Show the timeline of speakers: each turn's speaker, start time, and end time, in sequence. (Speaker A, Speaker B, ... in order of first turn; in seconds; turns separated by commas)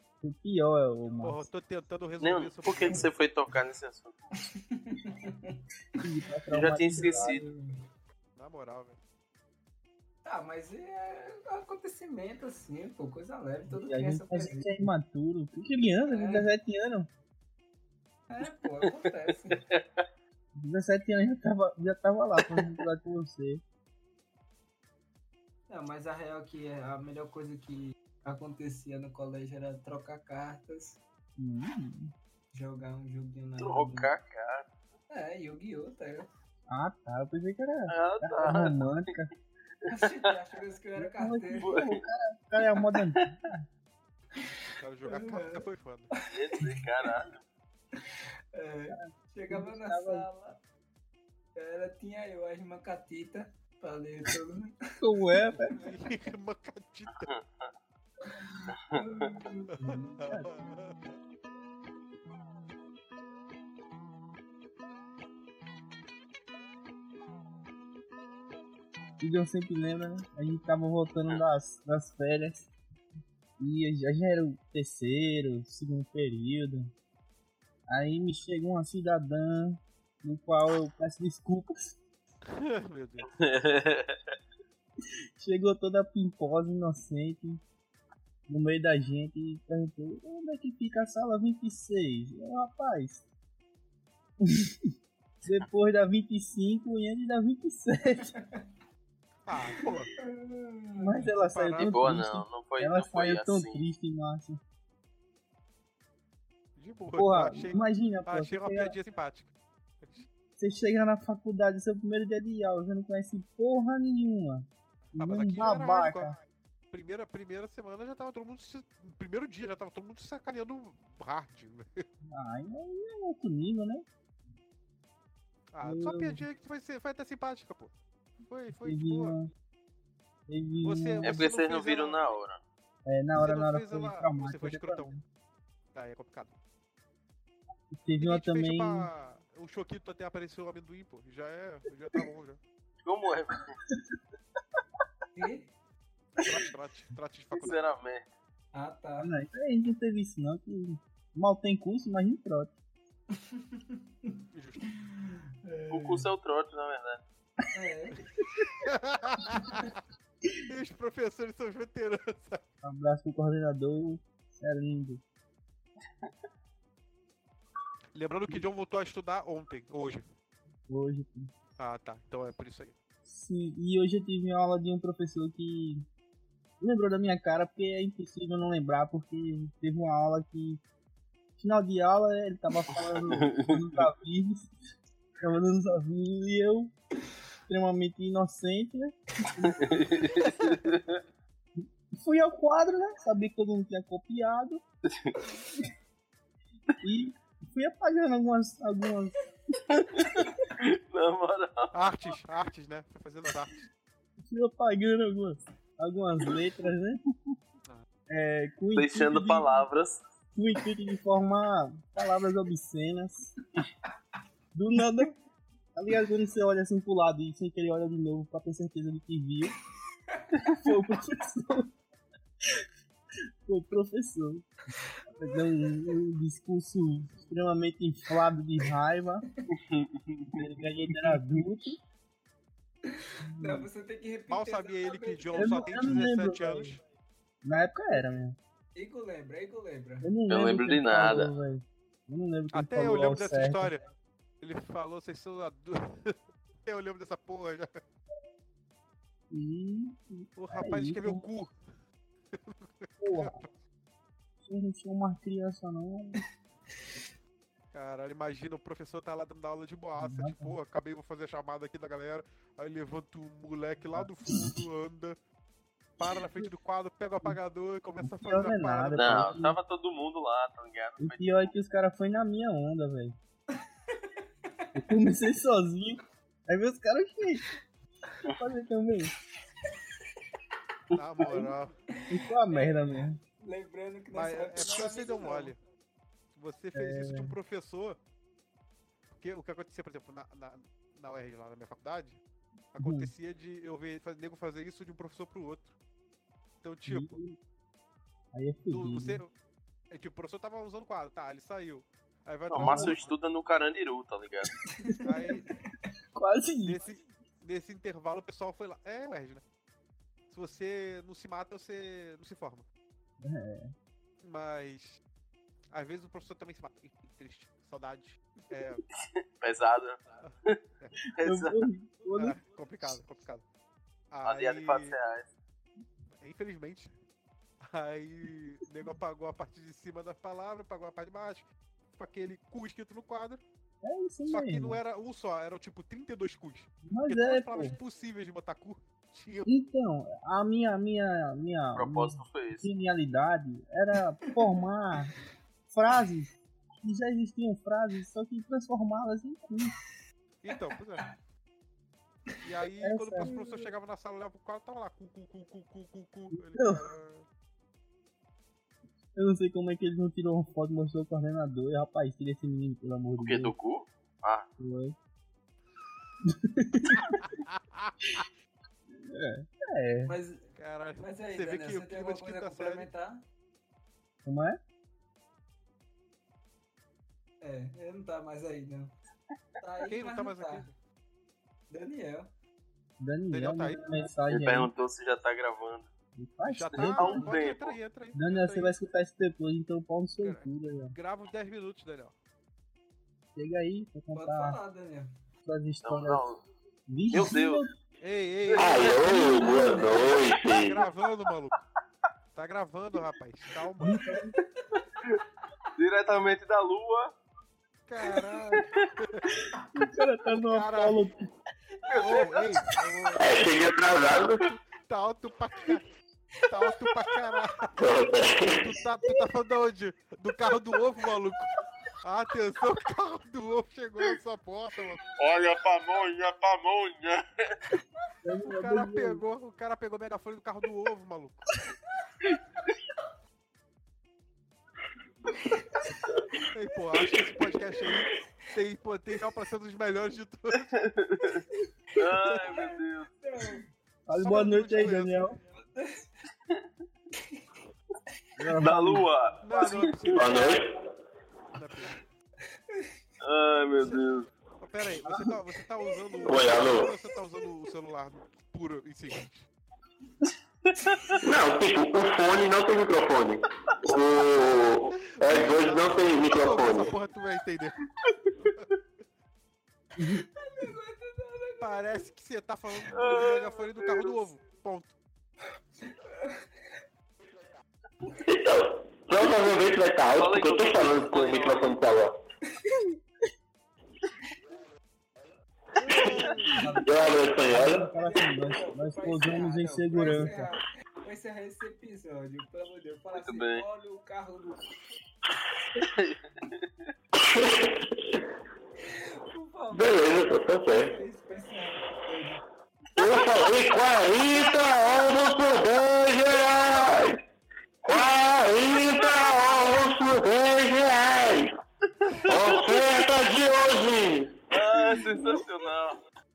Speaker A: 0.2-1.5, Speaker B: 1.1-3.1, Speaker C: 2.2-4.3, Speaker D: 4.5-6.0, Speaker A: 6.0-7.4, Speaker C: 6.5-7.4, Speaker D: 6.9-7.7, Speaker B: 8.3-9.0, Speaker D: 10.2-14.7, Speaker A: 13.7-17.1, Speaker D: 16.1-16.5, Speaker D: 18.3-19.6, Speaker C: 18.8-20.1, Speaker A: 20.5-23.6, Speaker C: 22.4-22.7, Speaker D: 25.7-31.0, Speaker A: 31.4-32.1, Speaker D: 32.5-34.1, Speaker C: 33.6-34.7, Speaker D: 35.1-36.3, Speaker A: 36.7-39.3, Speaker C: 37.9-38.9, Speaker D: 39.9-41.7, Speaker A: 41.0-43.6, Speaker C: 41.6-42.0, Speaker D: 44.3-45.6, Speaker B: 44.8-46.1, Speaker D: 46.3-46.8, Speaker C: 46.3-47.4, Speaker D: 48.0-50.6, Speaker A: 48.9-50.3, Speaker D: 51.5-54.7, Speaker A: 55.0-55.8, Speaker D: 55.5-55.8, Speaker B: 55.8-57.3, Speaker C: 57.1-57.7, Speaker D: 58.2-60.2, Speaker C: 58.7-59.4, Speaker B: 60.2-61.0, Speaker A: 60.3-60.6, Speaker A: 69.2-72.7, Speaker A: 73.6-76.9, Speaker A: 77.9-82.0, Speaker B: 82.4-83.3, Speaker C: 83.3-84.3, Speaker A: 85.4-87.6, Speaker A: 88.5-93.2, Speaker A: 94.4-94.9, Speaker A: 95.4-98.3, Speaker B: 99.4-100.1, Speaker D: 100.2-101.3, Speaker A: 101.0-104.6, Speaker B: 101.3-102.1, Speaker C: 101.8-103.8, Speaker B: 106.8-110.2, Speaker A: 107.2-108.9, Speaker A: 110.6-116.3, Speaker B: 115.2-116.3, Speaker B: 116.9-122.0, Speaker A: 122.3-124.0, Speaker B: 125.7-127.9, Speaker A: 125.8-126.4, Speaker B: 128.5-129.3, Speaker A: 128.7-129.5, Speaker A: 130.5-131.4, Speaker B: 130.8-132.2, Speaker C: 131.2-132.6, Speaker A: 133.1-135.2, Speaker B: 133.4-135.1, Speaker B: 135.9-136.5, Speaker A: 137.9-139.1, Speaker B: 138.2-142.6, Speaker C: 143.0-143.8, Speaker D: 145.3-145.7, Speaker B: 146.4-147.9, Speaker C: 147.5-148.2, Speaker D: 148.7-149.3, Speaker A: 149.2-152.7, Speaker D: 153.3-154.4, Speaker B: 154.5-154.9, Speaker D: 155.0-156.2, Speaker C: 155.9-157.2, Speaker D: 157.7-158.3, Speaker B: 158.8-159.9, Speaker B: 160.6-162.6, Speaker A: 162.8-165.2, Speaker B: 168.1-170.2, Speaker A: 170.9-171.5, Speaker B: 171.8-172.9, Speaker A: 173.2-176.0, Speaker A: 176.8-180.8, Speaker A: 181.6-184.7, Speaker C: 183.0-184.1, Speaker A: 185.4-186.9, Speaker A: 187.7-190.1, Speaker C: 189.7-191.2, Speaker B: 190.6-190.9, Speaker A: 191.8-194.8, Speaker C: 195.1-195.4, Speaker A: 197.0-200.5, Speaker C: 199.9-201.9, Speaker B: 201.9-203.8, Speaker A: 204.4-207.2, Speaker A: 208.3-209.8, Speaker C: 208.9-210.2, Speaker A: 210.5-213.5, Speaker A: 214.7-215.4, Speaker A: 215.9-219.8, Speaker A: 220.6-221.9, Speaker A: 223.7-224.7, Speaker D: 225.0-225.6, Speaker A: 225.3-229.4, Speaker C: 229.7-230.6, Speaker A: 230.5-232.0, Speaker D: 233.1-236.3, Speaker A: 233.5-233.9, Speaker B: 234.5-237.0, Speaker A: 235.6-236.9, Speaker A: 237.6-238.6, Speaker D: 238.9-240.3, Speaker A: 240.2-243.9, Speaker C: 240.5-241.5, Speaker B: 242.7-244.0, Speaker B: 244.6-248.0, Speaker A: 249.5-251.4, Speaker B: 250.6-251.7, Speaker B: 252.5-253.7, Speaker A: 253.2-253.6, Speaker A: 254.6-256.4, Speaker B: 257.9-265.4, Speaker A: 260.2-260.7, Speaker A: 264.1-264.8, Speaker B: 266.2-269.6, Speaker A: 268.2-269.8, Speaker C: 269.1-271.7, Speaker A: 271.2-273.4, Speaker D: 274.1-275.2, Speaker A: 274.9-277.6, Speaker A: 278.4-279.3, Speaker C: 281.1-281.6, Speaker B: 281.1-281.9, Speaker A: 281.4-281.7, Speaker D: 282.2-285.7, Speaker A: 282.3-283.4, Speaker B: 284.3-285.8, Speaker B: 286.5-288.2, Speaker A: 286.9-287.5, Speaker B: 289.3-292.4, Speaker B: 292.9-295.9, Speaker A: 293.0-293.3, Speaker B: 296.8-297.4, Speaker A: 297.1-297.6, Speaker A: 298.5-299.4, Speaker B: 298.9-299.5, Speaker B: 300.1-303.4, Speaker C: 302.7-304.7, Speaker A: 302.8-303.2, Speaker D: 304.9-305.8, Speaker B: 305.2-305.8, Speaker A: 306.3-307.0, Speaker B: 306.8-309.6, Speaker B: 310.5-312.8, Speaker A: 313.4-313.9, Speaker B: 314.4-315.2, Speaker B: 315.9-319.0, Speaker C: 319.2-320.8, Speaker B: 320.4-321.2, Speaker C: 321.3-321.9, Speaker A: 321.4-322.6, Speaker B: 322.3-323.6, Speaker B: 324.3-325.2, Speaker C: 324.4-325.5, Speaker B: 326.4-327.1, Speaker B: 327.8-333.6, Speaker A: 334.0-335.0, Speaker B: 334.5-339.7, Speaker A: 337.1-337.9, Speaker A: 339.6-345.4, Speaker C: 341.9-342.9, Speaker A: 345.9-346.5, Speaker A: 347.0-349.9, Speaker B: 350.6-351.3, Speaker B: 352.6-357.4, Speaker A: 353.0-353.5, Speaker D: 353.4-353.9, Speaker A: 356.6-357.1, Speaker A: 359.3-363.7, Speaker C: 363.4-364.6, Speaker A: 364.8-365.1, Speaker A: 366.4-367.4, Speaker B: 367.1-368.5, Speaker A: 369.1-370.3, Speaker D: 370.2-373.4, Speaker B: 370.8-373.1, Speaker A: 374.4-374.8, Speaker D: 377.6-379.1, Speaker D: 379.8-380.9, Speaker B: 380.1-380.9, Speaker D: 381.9-382.5, Speaker A: 383.2-384.9, Speaker B: 383.5-384.0, Speaker C: 384.5-386.1, Speaker A: 386.4-387.4, Speaker B: 386.6-388.9, Speaker C: 386.9-387.9, Speaker A: 388.3-391.1, Speaker B: 390.4-392.3, Speaker A: 393.5-394.8, Speaker D: 394.3-395.3, Speaker A: 395.6-396.4, Speaker C: 396.0-396.6, Speaker A: 397.1-397.9, Speaker C: 397.3-397.8, Speaker B: 398.2-399.9, Speaker C: 398.7-399.3, Speaker E: 398.8-401.0, Speaker D: 399.5-400.3, Speaker B: 400.6-401.7, Speaker B: 402.5-404.2, Speaker A: 404.0-404.6, Speaker D: 404.2-405.1, Speaker C: 406.0-407.3, Speaker B: 408.1-409.5, Speaker D: 408.2-408.7, Speaker A: 409.9-411.4, Speaker B: 410.5-411.2, Speaker D: 412.0-412.4, Speaker B: 412.1-413.7, Speaker E: 413.4-414.7, Speaker B: 414.6-416.1, Speaker B: 416.7-417.9, Speaker E: 418.0-418.9, Speaker B: 418.8-425.2, Speaker C: 425.4-427.6, Speaker A: 428.4-429.4, Speaker B: 428.6-431.7, Speaker D: 435.5-436.1, Speaker B: 436.7-441.1, Speaker C: 441.1-441.6, Speaker C: 442.1-443.3, Speaker D: 442.4-443.8, Speaker A: 444.2-445.6, Speaker B: 444.4-445.5, Speaker D: 445.9-446.3, Speaker A: 448.6-449.3, Speaker C: 448.8-450.6, Speaker B: 449.6-450.6, Speaker E: 450.3-451.0, Speaker B: 451.7-452.2, Speaker D: 452.9-453.1, Speaker C: 453.4-454.5, Speaker B: 454.0-454.2, Speaker B: 454.8-459.7, Speaker A: 455.2-455.5, Speaker D: 456.0-456.6, Speaker E: 456.4-457.1, Speaker E: 461.4-467.1, Speaker B: 465.2-468.0, Speaker D: 470.2-472.3, Speaker B: 471.8-475.1, Speaker C: 473.1-474.4, Speaker D: 476.2-476.6, Speaker E: 478.3-482.3, Speaker C: 480.4-481.9, Speaker B: 486.0-486.9, Speaker D: 486.1-486.9, Speaker A: 486.8-490.7, Speaker E: 487.0-488.1, Speaker D: 488.2-494.8, Speaker C: 493.3-493.8, Speaker C: 496.0-497.1, Speaker E: 497.3-498.1, Speaker D: 499.0-502.6, Speaker E: 499.9-501.1, Speaker E: 503.1-507.4, Speaker E: 508.0-511.7, Speaker C: 509.1-509.6, Speaker E: 512.5-515.2, Speaker C: 512.5-513.2, Speaker C: 514.7-516.2, Speaker D: 515.2-515.9